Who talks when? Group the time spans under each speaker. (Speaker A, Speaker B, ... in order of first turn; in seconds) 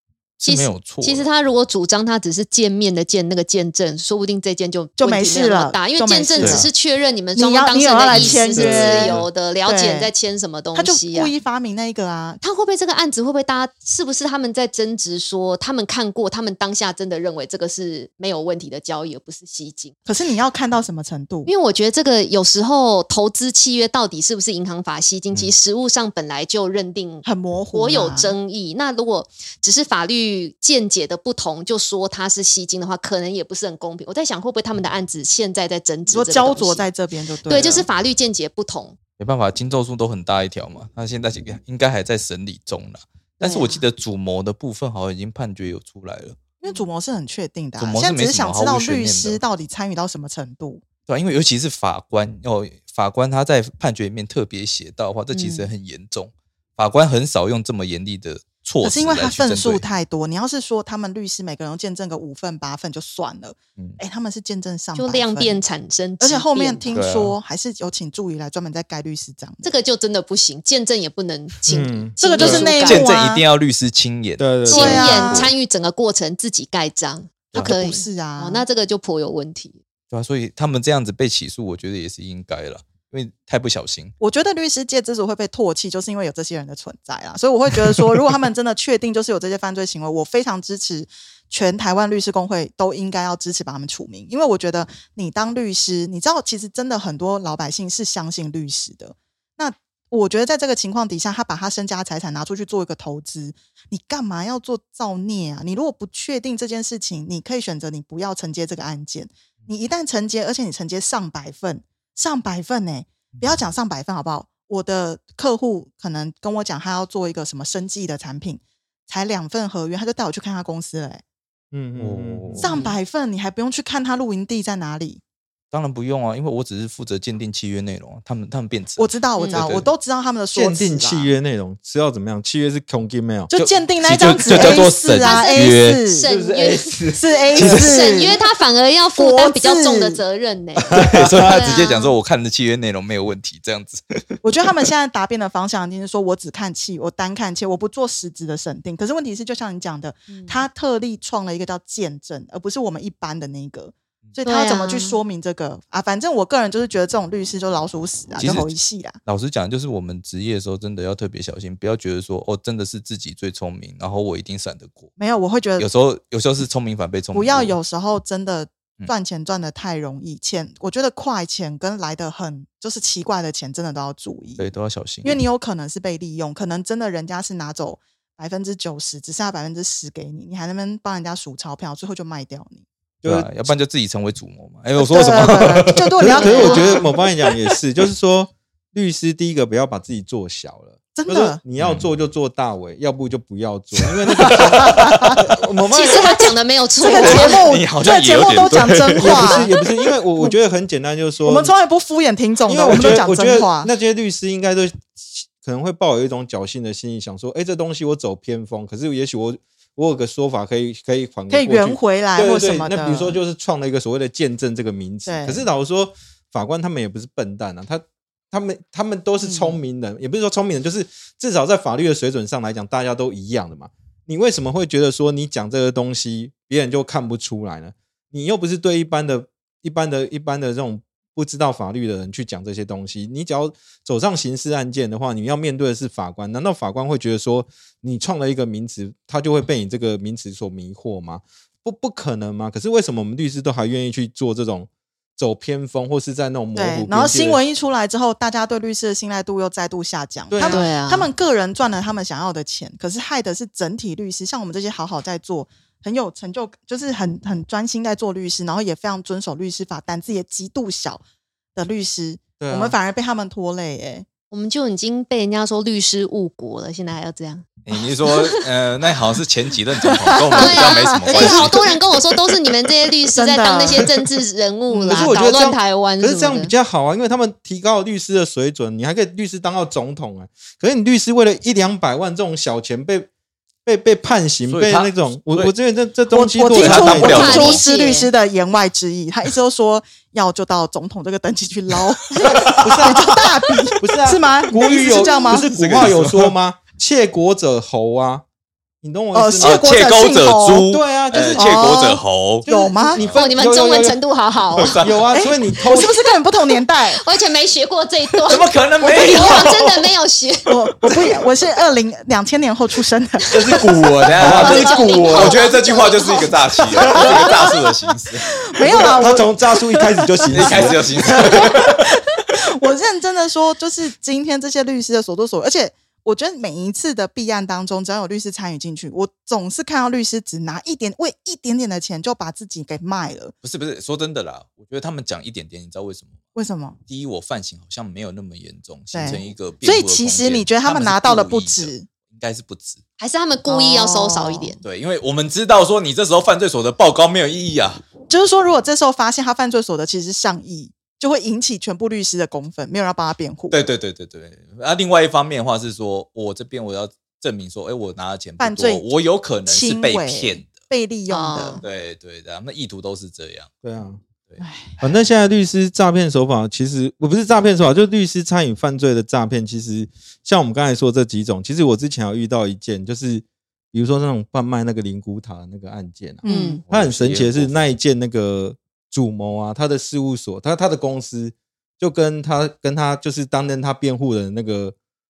Speaker A: 0.4-1.3, 6.4-6.7, 8.1-9.3, 39.2-46.4, 47.8-49.4, 51.1-59.8, 66.9-67.4, 72.4-75.5, 80.1-84.1, 122.0-122.8, 125.7-129.9, 133.5-136.0, 137.5-138.1, 140.9-144.8, 158.4-158.7, 159.2-165.1, 165.8-167.8, 174.6-175.4, 183.2-186.4, 191.8-192.1, 194.4-195.5, 197.1-199.7, 267.9-271.9, 284.7-285.7, 286.7-287.8, 292.3-293.1, 295.5-296.5, 299.6-303.4, 304.7-305.2, 308.5-310.1, 313.5-318.5, 320.5-322.0, 333.6-336.4, 337.1-343.0, 344.8-348.0, 353.7-360.7, 361.8-363.7, 376.9-377.9
Speaker B: 0.4-11.3, 12.4-20.0, 21.5-36.9, 37.5-39.0, 43.4-43.8, 55.3-55.7, 65.0-67.0, 69.6-73.1, 74.7-79.8, 122.7-123.0, 129.4-129.7, 134.5-142.1, 150.3-150.6, 154.4-155.2, 186.4-187.1, 195.9-197.7, 250.6-251.3, 264.5-267.6, 268.2-268.6, 270.5-276.7, 286.8-288.3, 303.2-306.3, 307.1-311.1, 314.4-317.7, 343.2-344.8, 361.3-361.8, 376.4-376.8
Speaker C: 5.0-6.7, 7.4-10.1, 10.8-12.4, 20.1-21.5, 27.2-28.3, 36.1-37.9, 46.6-50.8, 58.8-65.6, 66.2-69.8, 72.2-73.5, 74.7-75.5, 77.5-78.6, 84.2-121.2, 122.6-125.2, 129.0-131.3, 133.5-136.3, 137.1-138.4, 139.2-140.2, 144.4-159.2, 165.2-165.9, 167.3-174.7, 175.2-182.8, 185.0-187.1, 191.1-191.6, 194.5-195.4, 197.0-199.7, 201.4-203.9, 211.5-213.4, 215.3-215.6, 219.4-219.8, 246.8-261.2, 261.8-264.3, 270.3-271.7, 273.3-274.1, 274.9-275.4, 286.3-295.7, 299.3-300.9, 301.5-303.2, 305.3-307.2, 310.7-315.6, 317.0-317.6, 318.7-333.5, 336.6-337.0, 339.1-342.1, 343.7-344.8, 348.3-353.8, 358.6-359.1, 359.7-361.8, 364.6-365.1, 376.4-376.8
Speaker D: 71.7-72.2, 74.4-75.2, 121.7-122.7, 130.5-133.5, 136.3-137.2, 140.9-141.5, 183.2-183.7, 186.2-196.3, 199.2-201.7, 202.7-247.6, 250.5-250.8, 262.6-263.0, 275.1-283.3, 283.9-287.8, 292.6-293.4, 294.0-298.4, 299.0-299.9, 300.9-302.0, 302.6-304.2, 305.0-306.1, 313.8-315.5, 318.8-321.9, 363.8-364.2, 365.0-384.9